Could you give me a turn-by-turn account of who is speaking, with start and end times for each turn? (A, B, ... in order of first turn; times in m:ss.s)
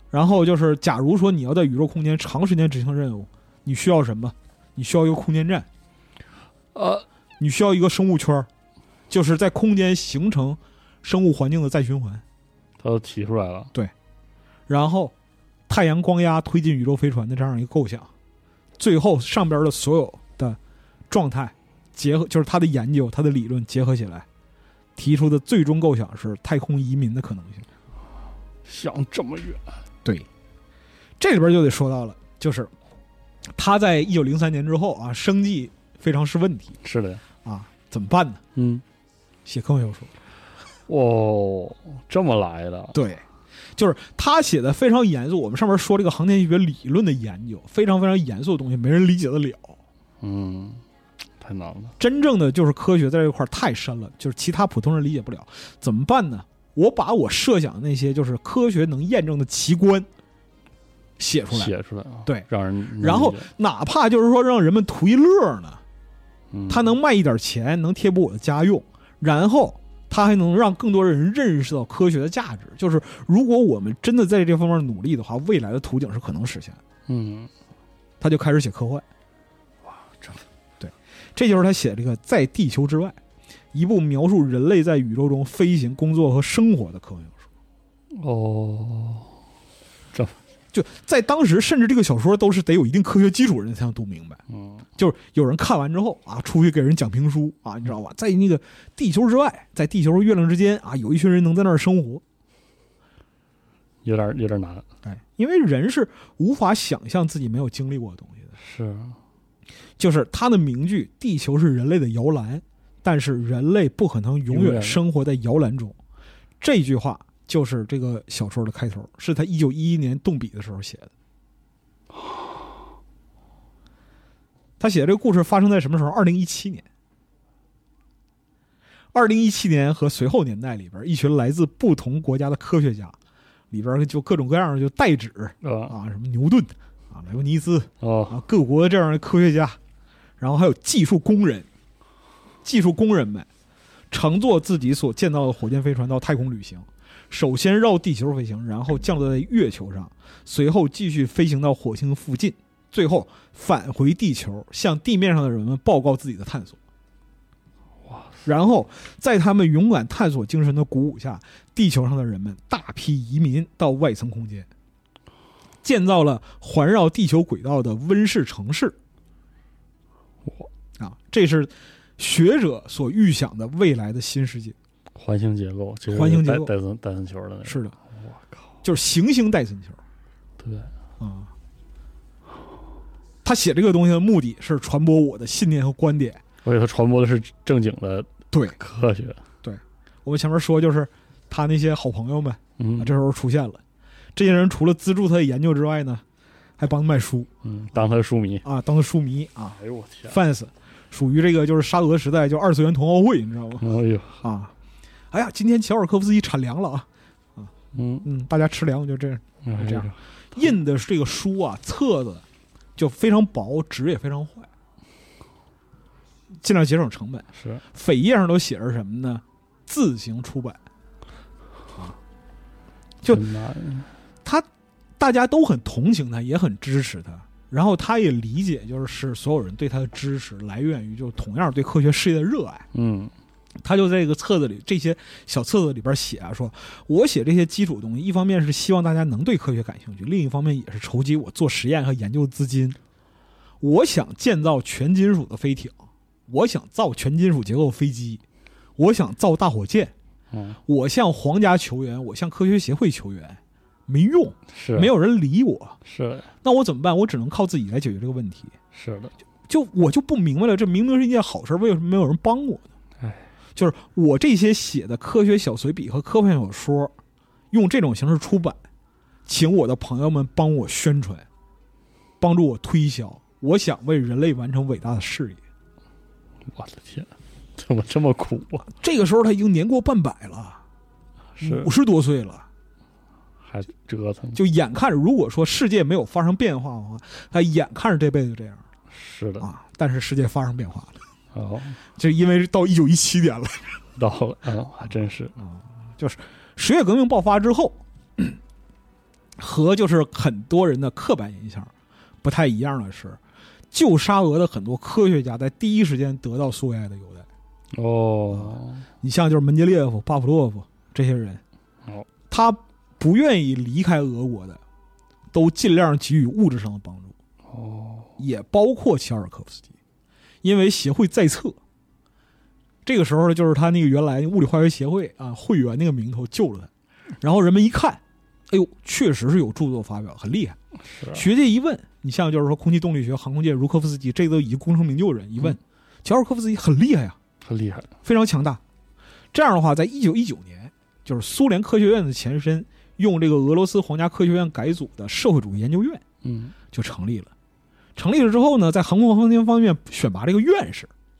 0:00.1-0:05.7 A
0:06.7-0:07.0 B
0:07.4-0:08.5 A
0:09.1-0:12.2 A
0:12.8-0:13.7 B
0:14.7-0:15.1 A
0:15.7-0:18.1 A
0:18.8-0:20.6 A
0:21.1-0:24.2 A
0:25.0-0:27.6 A
0:28.6-0:29.8 B
0:31.2-0:32.7 A
0:33.5-0:36.8 A
0:36.8-0:37.2 B
0:37.4-0:38.4 A
0:38.5-0:38.8 B
0:39.4-0:40.1 A
0:40.9-0:43.0 B
0:42.9-0:43.2 A
0:43.8-0:49.8 A
0:50.2-0:50.8 B
0:51.4-0:51.9 B
0:52.0-1:00.1 A
1:01.2-1:01.7 A
1:01.5-1:03.5 B
1:03.0-1:05.8 A
1:06.5-1:06.9 B
1:06.7-1:16.8 A
1:17.1-1:17.5 B
1:18.2-1:19.0 A
1:19.8-1:20.4 B
1:20.8-1:23.2 A
1:23.7-1:27.4 A
1:28.1-1:29.3 B
1:30.7-1:34.4 A
1:34.5-1:34.8 B
1:35.0-1:42.2 A
1:44.0-1:44.8 B
1:45.0-1:48.5 A
1:48.6-1:49.2 B
1:50.0-1:56.0 A
1:54.5-1:55.0 B
1:56.6-2:01.1 A
2:04.8-2:06.9 A
2:09.1-2:13.2 A
2:13.7-2:19.8 A
2:15.6-2:15.9 B
2:18.0-2:18.4 B
2:20.4-2:21.7 A
2:22.6-2:23.5 A
2:24.1-2:36.8 A
2:38.0-2:38.4 B
2:38.4-2:44.7 A
2:45.8-2:49.0 A
2:51.0-2:54.8 A
2:55.1-2:58.6 B
2:56.1-2:56.7 A
2:57.6-2:57.9 A
2:58.8-3:00.0 A
3:00.6-3:00.9 B
3:01.2-3:01.5 A
3:03.4-3:06.4 A
3:06.6-3:09.4 B
3:08.5-3:08.8 A
3:09.6-3:13.8 A
3:12.8-3:13.1 B
3:14.3-3:16.2 A
3:16.8-3:17.5 A
3:17.6-3:18.6 B
3:18.6-3:23.9 A
3:19.8-3:20.4 B
3:23.8-3:24.4 B
3:24.4-3:24.7 A
3:25.3-3:27.7 A
3:27.9-3:28.3 B
3:28.2-3:32.4 A
3:29.6-3:30.6 B
3:33.0-3:34.7 A
3:36.6-3:40.8 A
3:37.6-3:37.8 B
3:43.3-3:44.1 B
3:45.2-3:52.8 A
3:52.9-3:53.3 B
3:53.8-4:03.0 A
4:03.8-4:06.0 A
4:06.5-4:08.4 A
4:09.0-4:10.1 A
4:10.5-4:10.8 B
4:10.9-4:16.0 A
4:14.7-4:15.1 B
4:16.0-4:16.5 B
4:16.6-4:18.7 A
4:18.9-4:19.3 B
4:19.7-4:22.9 A
4:23.2-4:23.4 B
4:23.8-4:27.1 A
4:27.7-4:28.8 A
4:29.4-4:31.4 A
4:32.4-4:35.6 A
4:36.7-4:38.9 B
4:38.9-4:40.8 A
4:41.6-4:41.9 B
4:41.6-4:42.6 A
4:43.6-4:44.6 B
4:44.5-4:48.8 A
4:49.1-4:49.7 B
4:49.6-4:51.2 A
4:51.5-4:52.0 B
4:52.2-4:54.0 A
4:54.2-4:55.5 B
4:55.6-4:58.6 A
4:59.6-5:01.9 A
5:02.4-5:03.4 A
5:03.9-5:07.5 A
5:07.9-5:09.0 B
5:08.5-5:11.6 A
5:12.5-5:14.8 A
5:15.5-5:17.3 A
5:17.7-5:18.3 B
5:18.4-5:19.9 A
5:20.6-5:21.8 A
5:23.0-5:26.9 A
5:27.4-5:30.8 A
5:31.1-5:31.4 B
5:31.3-5:37.4 A
5:37.6-5:38.1 B
5:38.2-5:38.8 A
5:39.5-5:46.2 A
5:46.4-5:46.8 B
5:46.9-5:47.5 A
5:48.2-5:51.1 A